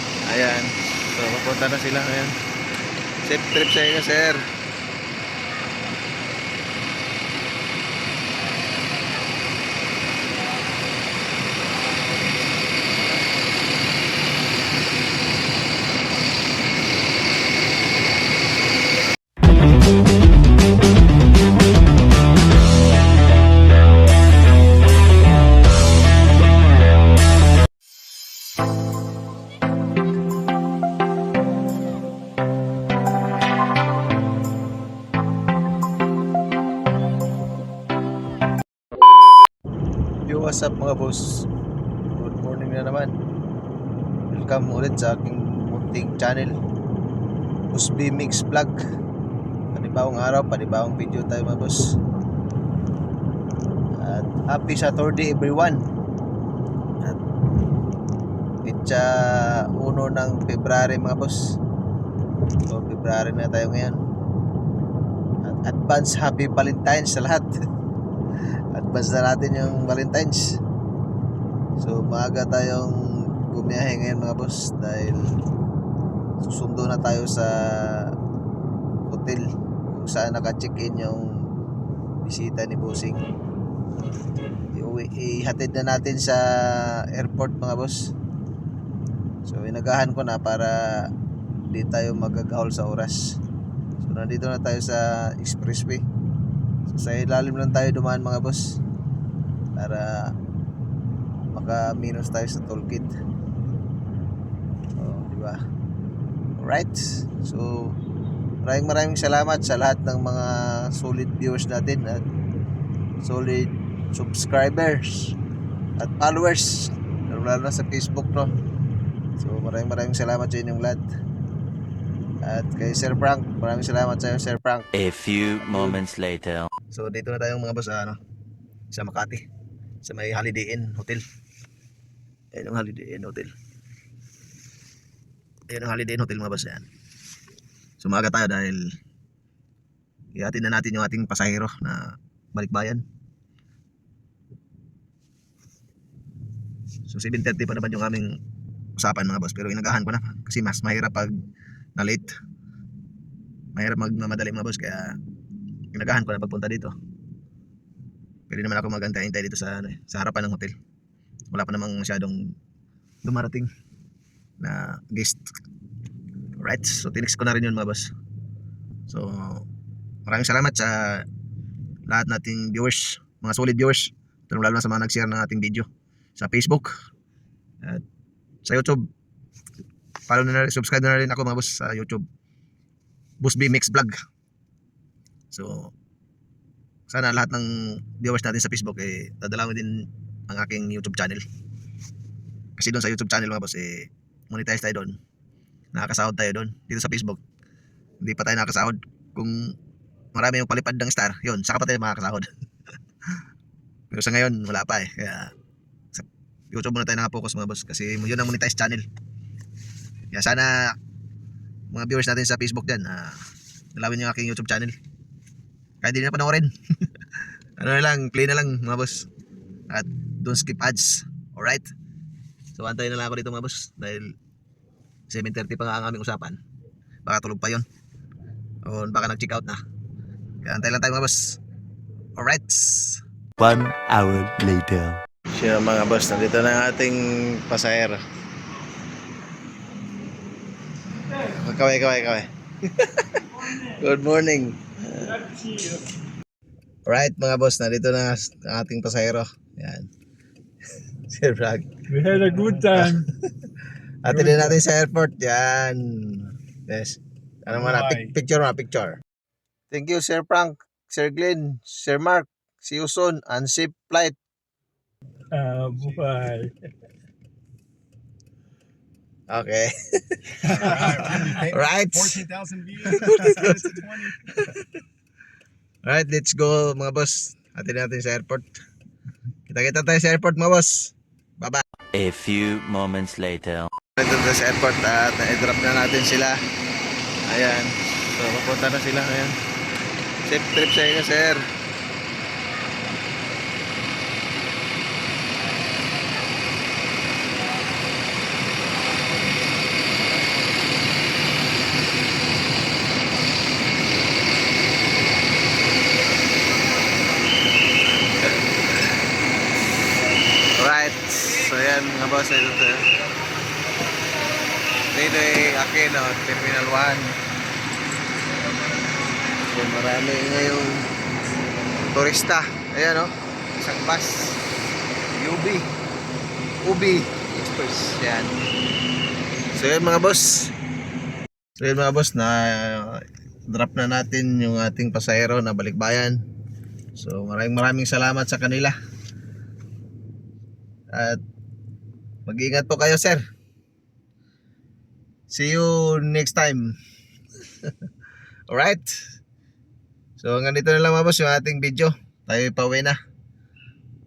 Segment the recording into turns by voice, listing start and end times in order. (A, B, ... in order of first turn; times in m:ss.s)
0:00.3-0:02.4 A
0:03.2-0:04.4 A
0:40.3-0:41.5 A
0:42.1-0:43.1 A
0:44.3-0:46.6 A
0:47.7-0:48.8 A
0:49.7-0:52.0 A
0:54.0-0:55.8 A
0:58.6-1:01.4 A
1:02.7-1:04.0 A
1:05.4-1:07.5 A
1:08.7-1:10.6 A
1:11.8-1:15.3 A
1:16.4-1:18.1 A
1:19.1-1:21.3 A
1:22.2-1:23.2 A
1:24.7-1:28.1 A
1:29.4-1:31.1 A
1:31.7-1:33.4 A
1:34.0-1:36.0 A
1:36.9-1:38.8 A
1:39.8-1:40.3 A
1:41.6-1:43.1 A
1:45.0-1:45.6 A
1:46.6-1:48.0 A
1:48.6-1:52.2 A
1:53.2-1:55.4 A
1:56.0-1:58.5 A
1:59.4-2:01.0 A
2:02.4-2:04.9 A
2:04.9-2:06.7 B
2:06.9-2:08.2 A
2:08.9-2:09.4 A
2:10.0-2:11.2 A
2:12.5-2:13.5 A
2:15.7-2:16.9 A
2:18.0-2:18.9 A
2:20.3-2:23.0 A
2:27.1-2:28.4 A
2:29.0-2:31.4 A
2:32.0-2:32.4 A
2:33.7-2:35.2 A
2:35.9-2:36.9 A
2:38.5-2:40.8 A
2:41.5-2:42.5 A
2:43.2-2:43.7 A
2:44.6-2:45.4 A
2:46.6-2:48.1 A
2:49.1-2:49.7 A
2:50.3-2:51.3 A
2:52.1-2:56.9 A
2:58.6-2:59.0 A
3:00.3-3:02.2 A
3:03.4-3:04.2 A
3:05.5-3:05.9 A
3:07.1-3:11.4 A
3:12.8-3:15.2 A
3:15.9-3:17.4 A
3:18.2-3:19.7 A
3:20.4-3:22.5 A
3:24.1-3:25.5 A
3:26.1-3:29.1 A
3:30.3-3:31.0 A
3:31.9-3:33.4 A
3:34.0-3:35.0 A
3:36.0-3:36.7 A
3:37.8-3:39.3 A
3:39.9-3:41.9 A
3:42.8-3:44.3 A
3:45.3-3:46.6 A
3:47.2-3:47.9 A
3:48.8-3:49.8 A
3:50.6-3:51.6 A
3:52.4-3:53.2 A
3:53.6-3:55.2 B
3:55.5-3:58.2 A
4:01.3-4:05.6 A
4:05.5-4:06.0 C
4:07.1-4:10.1 A
4:11.3-4:12.0 A
4:12.1-4:13.3 C
4:12.9-4:13.5 A
4:14.2-4:19.2 A
4:14.3-4:14.7 C
4:17.9-4:18.3 C
4:19.9-4:24.4 A
4:25.5-4:26.7 C
4:29.5-4:32.4 A
4:30.6-4:34.4 D
4:33.1-4:33.9 A
4:34.4-4:34.8 A
4:36.1-4:38.7 A
4:39.7-4:41.8 A
4:42.1-4:43.9 B
4:44.2-4:46.6 A
4:47.5-4:49.6 A
4:50.5-4:51.7 A
5:10.8-5:13.1 A
5:15.1-5:17.4 A
5:19.6-5:21.1 A
5:22.1-5:24.6 A
5:25.4-5:25.9 A
5:26.8-5:28.6 A
5:29.7-5:30.7 A
5:31.8-5:36.4 A
5:37.2-5:39.0 A
5:41.1-5:41.4 A
5:42.5-5:43.4 A
5:45.5-5:46.9 A
5:48.7-5:49.2 A
5:50.4-5:53.2 A